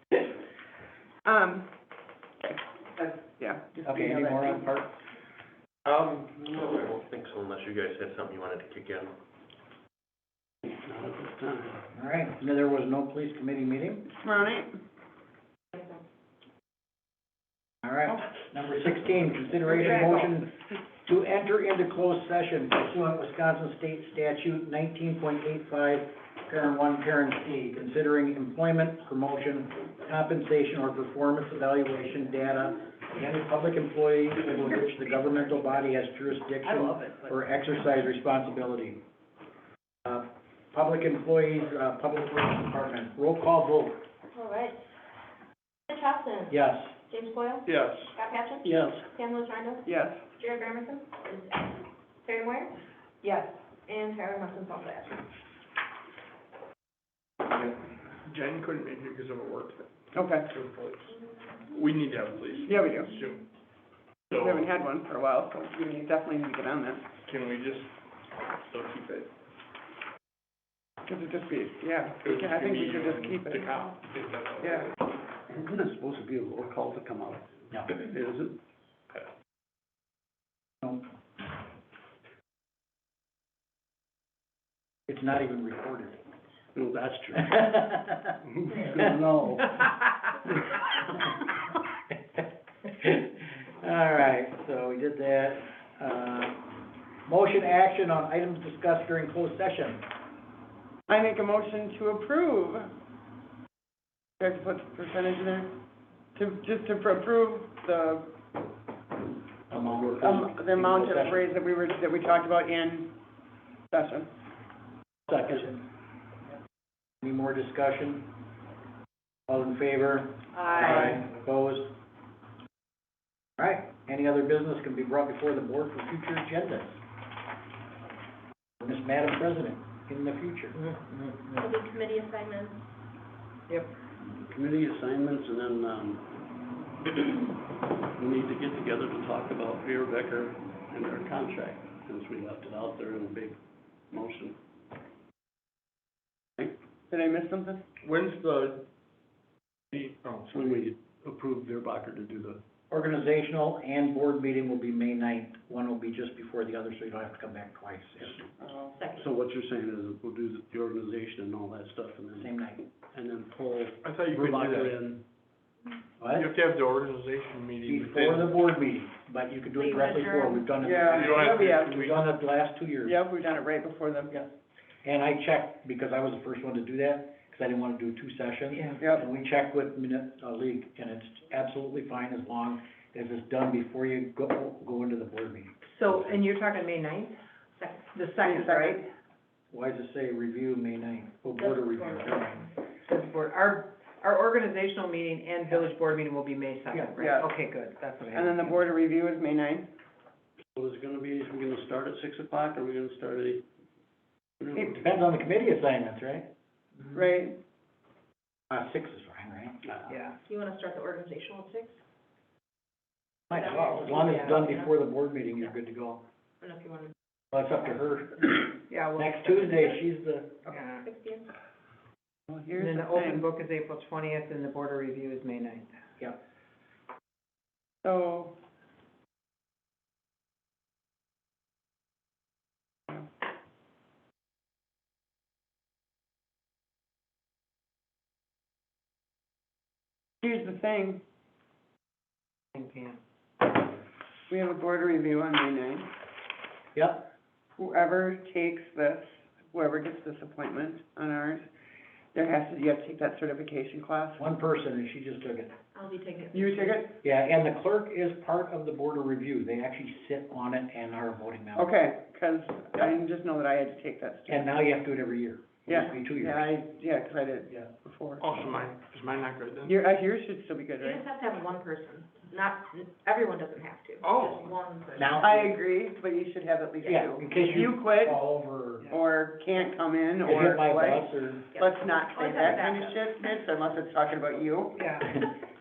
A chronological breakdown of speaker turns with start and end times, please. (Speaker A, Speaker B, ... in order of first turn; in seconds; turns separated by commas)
Speaker A: 1.2-1.7, Speaker A: 2.4-4.7, Speaker B: 3.8-4.9, Speaker C: 5.8-9.2, Speaker D: 10.7-11.9, Speaker B: 11.9-14.1, Speaker A: 14.1-14.7, Speaker B: 17.8-20.5, Speaker B: 21.1-39.0, Speaker D: 36.7-37.4, Speaker B: 40.0-44.0, Speaker E: 44.3-44.8, Speaker E: 45.9-46.5, Speaker B: 46.5-46.9, Speaker E: 47.1-55.3, Speaker F: 47.7-48.1, Speaker D: 48.6-49.0, Speaker A: 49.8-50.2, Speaker F: 58.2-59.9, Speaker A: 60.1-60.5, Speaker F: 60.5-61.1, Speaker F: 61.7-63.4, Speaker A: 62.7-63.1, Speaker F: 64.3-64.8, Speaker A: 64.3-67.0, Speaker F: 67.2-67.9, Speaker F: 68.7-69.3, Speaker A: 71.1-73.8, Speaker F: 72.2-74.9, Speaker A: 74.6-74.9, Speaker D: 75.5-78.6, Speaker B: 85.1-86.2, Speaker D: 86.8-87.7, Speaker B: 87.3-88.3, Speaker D: 88.4-89.9, Speaker B: 92.4-96.7, Speaker B: 97.2-100.0, Speaker A: 101.1-102.9, Speaker A: 104.4-105.7, Speaker A: 106.3-108.3, Speaker B: 109.7-111.4, Speaker A: 110.2-113.1, Speaker A: 113.9-114.3, Speaker B: 115.3-115.8, Speaker B: 117.2-118.3, Speaker B: 119.5-121.9, Speaker G: 120.5-121.2, Speaker B: 123.6-127.0, Speaker B: 128.8-130.8, Speaker G: 130.8-131.7, Speaker E: 131.6-132.8, Speaker D: 134.3-136.3, Speaker D: 137.1-137.5, Speaker D: 138.2-143.6, Speaker D: 144.1-144.6, Speaker A: 147.1-147.8, Speaker F: 148.0-148.8, Speaker F: 149.9-150.8, Speaker D: 150.5-152.6, Speaker B: 152.9-158.4, Speaker A: 158.6-159.0, Speaker E: 158.9-159.3, Speaker D: 159.2-162.5, Speaker B: 162.4-162.8, Speaker D: 163.1-165.2, Speaker F: 164.0-165.0, Speaker B: 166.2-166.5, Speaker F: 166.3-168.5, Speaker B: 167.8-173.2, Speaker E: 169.8-171.1, Speaker A: 170.8-172.0, Speaker F: 171.1-172.2, Speaker A: 173.0-174.4, Speaker B: 175.0-185.7, Speaker A: 179.0-179.2, Speaker G: 185.8-187.3, Speaker E: 187.8-188.1, Speaker G: 188.0-189.0, Speaker A: 188.4-189.1, Speaker B: 189.7-192.7, Speaker E: 191.6-192.7, Speaker G: 193.1-198.8, Speaker A: 197.2-197.6, Speaker A: 198.3-199.9, Speaker D: 200.8-203.6, Speaker D: 204.6-205.1, Speaker A: 204.8-205.0, Speaker B: 205.0-206.5, Speaker A: 207.1-207.6, Speaker B: 208.7-209.8, Speaker G: 210.1-210.4, Speaker E: 210.5-212.0, Speaker B: 213.5-216.2, Speaker E: 213.5-214.9, Speaker G: 214.2-214.6, Speaker E: 216.6-217.1, Speaker B: 217.5-220.6, Speaker G: 218.9-220.0, Speaker G: 220.7-221.1, Speaker E: 220.7-221.5, Speaker A: 222.5-223.5, Speaker G: 222.7-226.0, Speaker A: 228.0-228.6, Speaker A: 240.4-241.2, Speaker G: 242.7-243.2, Speaker A: 244.5-246.1, Speaker B: 246.9-247.3, Speaker A: 247.8-251.7, Speaker A: 252.3-254.4, Speaker B: 254.4-255.7, Speaker E: 255.9-257.0, Speaker A: 256.5-257.2, Speaker B: 257.2-261.9, Speaker A: 261.8-264.7, Speaker B: 264.5-266.7, Speaker A: 265.9-268.4, Speaker F: 268.4-269.9, Speaker A: 269.9-271.2, Speaker E: 271.0-275.5, Speaker F: 274.2-274.7, Speaker B: 275.2-275.8, Speaker A: 275.4-278.4, Speaker B: 277.0-279.1, Speaker A: 279.1-285.1, Speaker B: 280.4-281.6, Speaker E: 281.8-283.2, Speaker G: 284.9-285.4